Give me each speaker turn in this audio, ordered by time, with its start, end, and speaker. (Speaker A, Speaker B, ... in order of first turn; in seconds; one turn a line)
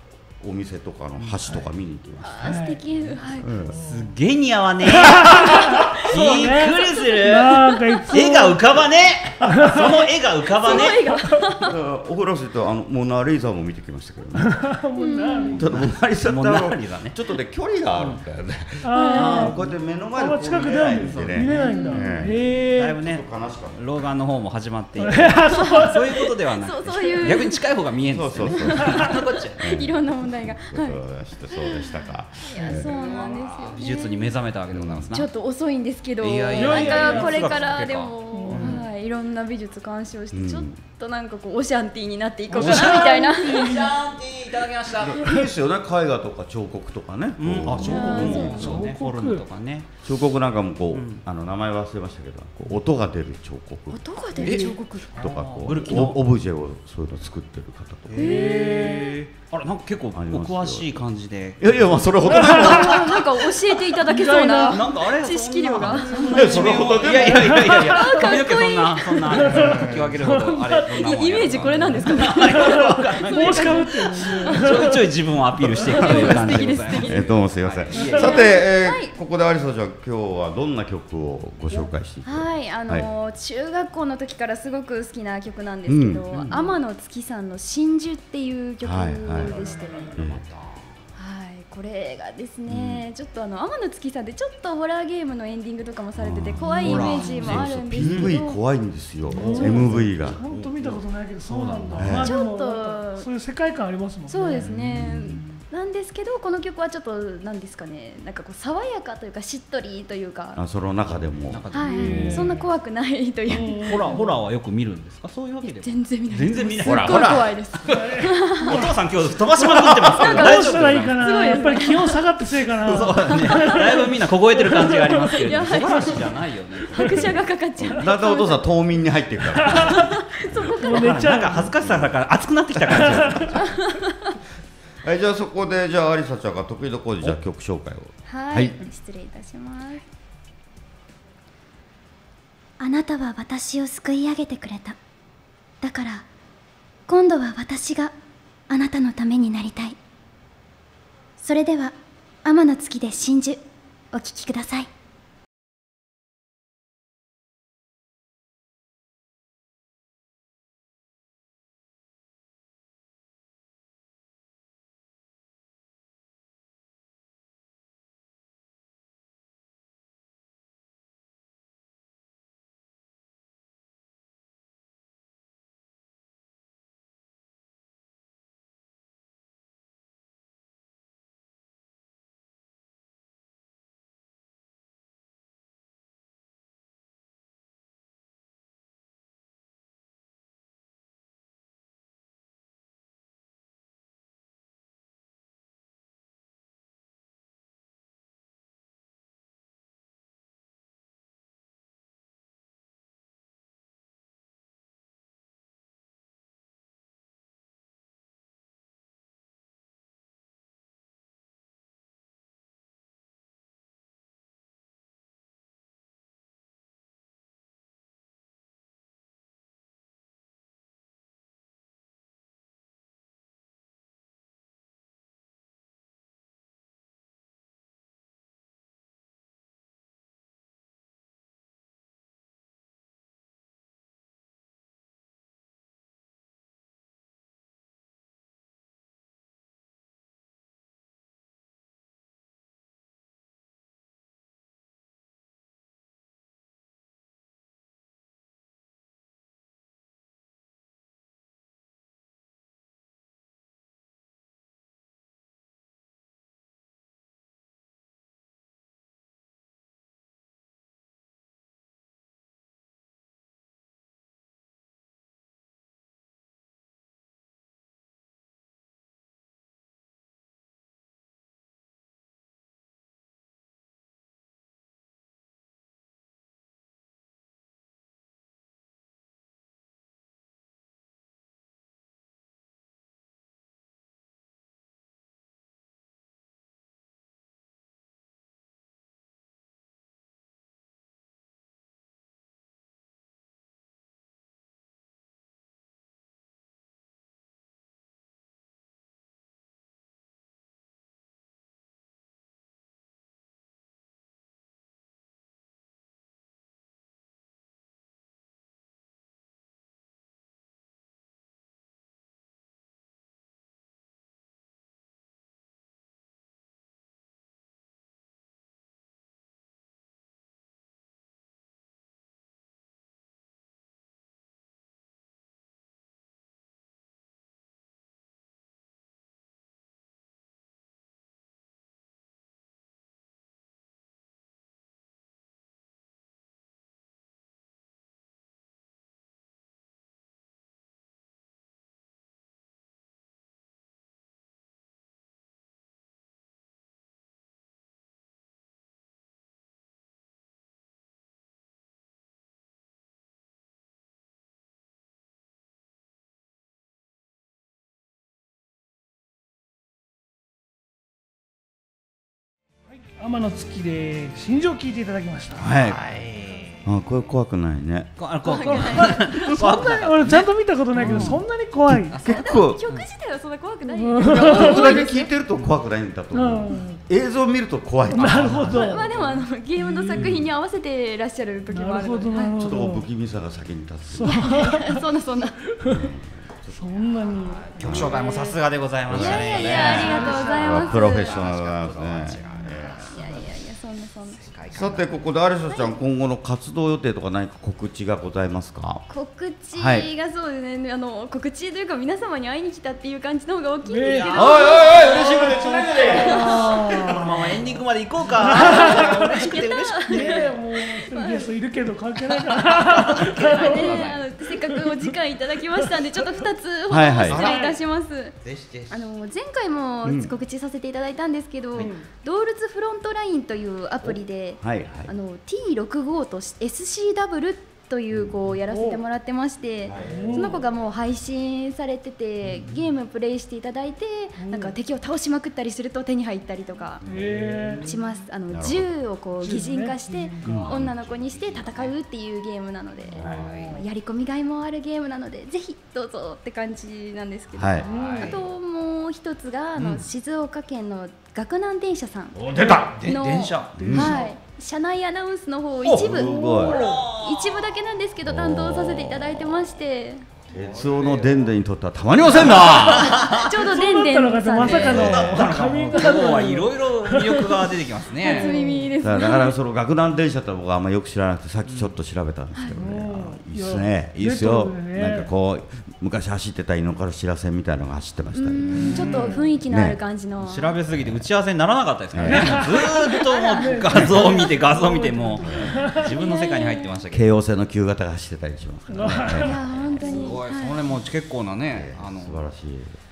Speaker A: 0.4-2.5
Speaker B: 2.2-3.7
Speaker C: 2.4-2.8
Speaker A: 3.4-3.8
Speaker C: 3.7-4.1
Speaker D: 3.8-11.0
Speaker C: 4.9-8.8
Speaker C: 9.4-10.1
Speaker B: 10.6-11.8
Speaker C: 10.7-11.4
Speaker A: 11.7-14.6
Speaker C: 14.4-15.6
Speaker B: 15.0-15.6
Speaker A: 15.5-22.4
Speaker D: 16.2-17.1
Speaker D: 18.0-18.2
Speaker C: 18.8-19.6
Speaker B: 18.9-19.5
Speaker D: 19.1-19.5
Speaker C: 20.1-23.0
Speaker D: 20.9-21.7
Speaker B: 21.7-22.3
Speaker D: 22.7-29.6
Speaker A: 23.0-23.9
Speaker C: 25.0-26.3
Speaker B: 25.5-26.0
Speaker B: 26.5-27.6
Speaker A: 28.1-33.0
Speaker B: 28.5-29.0
Speaker C: 28.8-29.1
Speaker B: 29.6-31.0
Speaker B: 31.5-34.4
Speaker D: 32.7-35.3
Speaker A: 34.7-35.0
Speaker B: 35.1-43.9
Speaker D: 36.2-38.8
Speaker C: 36.5-37.8
Speaker C: 38.3-38.8
Speaker A: 40.3-40.8
Speaker C: 42.5-43.9
Speaker D: 42.6-45.4
Speaker A: 45.0-48.7
Speaker D: 47.4-49.9
Speaker C: 47.6-49.5
Speaker B: 47.9-48.7
Speaker A: 50.0-54.0
Speaker D: 50.9-51.2
Speaker B: 53.9-55.3
Speaker D: 54.4-56.2
Speaker C: 54.4-54.8
Speaker A: 55.1-58.3
Speaker D: 58.1-61.9
Speaker B: 58.2-59.0
Speaker C: 58.2-59.1
Speaker A: 60.1-61.0
Speaker A: 61.6-63.2
Speaker C: 62.3-62.9
Speaker B: 62.4-66.6
Speaker C: 64.0-64.9
Speaker D: 64.7-78.5
Speaker C: 66.0-68.2
Speaker A: 66.3-67.7
Speaker B: 67.8-69.7
Speaker C: 69.2-75.1
Speaker A: 69.6-70.0
Speaker B: 71.0-74.9
Speaker C: 75.7-76.5
Speaker B: 76.0-77.3
Speaker A: 77.0-83.1
Speaker C: 77.9-78.5
Speaker B: 78.0-79.2
Speaker B: 82.2-90.1
Speaker A: 85.9-86.5
Speaker A: 88.8-89.6
Speaker D: 89.5-90.8
Speaker A: 90.2-90.4
Speaker B: 91.2-98.6
Speaker A: 92.7-93.0
Speaker A: 96.2-100.7
Speaker C: 96.7-97.5
Speaker D: 96.8-98.3
Speaker D: 99.3-102.2
Speaker C: 99.3-104.7
Speaker B: 99.4-100.0
Speaker A: 102.0-102.3
Speaker B: 102.2-103.3
Speaker B: 104.3-110.6
Speaker A: 104.6-105.4
Speaker A: 110.5-112.3
Speaker D: 111.5-112.5
Speaker B: 111.7-114.2
Speaker C: 111.9-112.6
Speaker C: 113.5-114.3
Speaker D: 113.8-121.6
Speaker B: 115.6-118.8
Speaker A: 116.8-117.5
Speaker C: 118.0-119.0
Speaker C: 119.5-126.3
Speaker A: 119.8-120.3
Speaker B: 120.2-122.2
Speaker A: 122.8-123.3
Speaker D: 123.0-127.3
Speaker B: 123.3-124.0
Speaker B: 124.9-126.3
Speaker C: 126.9-127.3
Speaker B: 126.9-128.7
Speaker A: 127.8-130.0
Speaker C: 129.6-130.0
Speaker B: 129.9-131.3
Speaker C: 130.8-131.7
Speaker D: 131.0-133.7
Speaker A: 131.8-132.2
Speaker A: 132.9-133.5
Speaker C: 132.9-133.5
Speaker B: 133.6-134.1
Speaker A: 135.0-138.8
Speaker B: 138.3-140.0
Speaker E: 142.8-144.9
Speaker B: 142.8-144.9
Speaker E: 145.8-146.2
Speaker E: 147.1-148.1
Speaker B: 147.4-148.1
Speaker E: 148.7-150.0
Speaker B: 151.4-151.9
Speaker E: 151.4-151.9
Speaker E: 152.5-153.6
Speaker B: 152.5-153.6
Speaker E: 154.1-154.9
Speaker C: 363.2-365.6
Speaker A: 365.6-366.0
Speaker D: 365.8-366.9
Speaker A: 366.9-368.1
Speaker D: 368.2-371.4
Speaker B: 368.5-369.3
Speaker C: 368.6-372.2
Speaker A: 371.0-371.4
Speaker A: 371.9-372.8
Speaker B: 372.1-375.3
Speaker C: 373.9-375.1
Speaker A: 374.2-378.9
Speaker C: 376.3-377.0
Speaker C: 378.1-380.4
Speaker D: 378.2-378.6
Speaker B: 378.7-382.6
Speaker C: 381.7-383.1
Speaker A: 382.6-384.4
Speaker C: 384.1-385.1
Speaker B: 384.2-385.6
Speaker C: 385.6-386.1
Speaker A: 385.8-388.3
Speaker C: 386.8-388.6
Speaker D: 387.7-393.4
Speaker A: 389.1-393.1
Speaker B: 389.1-391.4
Speaker C: 390.0-390.9
Speaker B: 393.0-394.4
Speaker D: 394.4-395.1
Speaker A: 394.7-399.1
Speaker B: 395.7-396.0
Speaker B: 399.1-406.8
Speaker A: 399.7-400.1
Speaker C: 403.9-404.5
Speaker D: 404.1-410.5
Speaker A: 404.3-406.5
Speaker C: 405.6-407.5
Speaker C: 408.3-409.5
Speaker B: 408.6-411.5
Speaker C: 410.1-414.1
Speaker D: 412.8-414.2
Speaker B: 413.3-418.4
Speaker C: 414.7-415.1
Speaker A: 416.9-417.5
Speaker D: 417.3-417.7
Speaker C: 417.4-417.7
Speaker D: 418.4-418.9
Speaker B: 418.9-437.0
Speaker A: 420.0-420.3
Speaker A: 424.0-425.1
Speaker C: 428.7-429.0
Speaker A: 429.9-430.4
Speaker C: 430.1-430.6
Speaker C: 434.4-434.8
Speaker A: 437.0-437.8
Speaker C: 437.1-437.9
Speaker B: 437.9-452.4
Speaker A: 438.5-438.9
Speaker C: 439.4-440.6
Speaker D: 440.4-440.8
Speaker A: 440.4-441.9
Speaker A: 443.1-443.6
Speaker D: 443.2-443.8
Speaker A: 447.6-447.9
Speaker C: 447.8-448.4
Speaker D: 447.9-448.3
Speaker D: 449.8-450.0
Speaker A: 452.4-452.9
Speaker D: 452.6-454.0
Speaker B: 453.1-460.3
Speaker A: 453.8-454.2
Speaker C: 453.9-454.3
Speaker A: 455.8-456.8
Speaker C: 456.3-457.0
Speaker D: 456.7-457.6
Speaker A: 458.2-459.8
Speaker A: 460.5-463.3
Speaker D: 460.6-461.3
Speaker D: 462.4-463.3
Speaker B: 463.1-465.5
Speaker C: 463.6-468.9
Speaker A: 464.6-465.9
Speaker D: 464.6-468.6
Speaker B: 468.2-469.6
Speaker A: 469.0-479.0
Speaker D: 471.6-471.9
Speaker C: 472.8-475.3
Speaker B: 478.3-480.8
Speaker C: 478.7-479.5
Speaker D: 478.8-479.2
Speaker A: 479.7-480.0
Speaker D: 480.4-487.3
Speaker A: 482.1-482.7
Speaker C: 482.2-486.3
Speaker B: 483.3-484.0
Speaker A: 485.4-485.7
Speaker B: 486.1-486.9
Speaker A: 487.1-490.2
Speaker C: 488.9-490.4
Speaker B: 489.4-490.9
Speaker D: 490.0-492.4
Speaker A: 491.7-492.9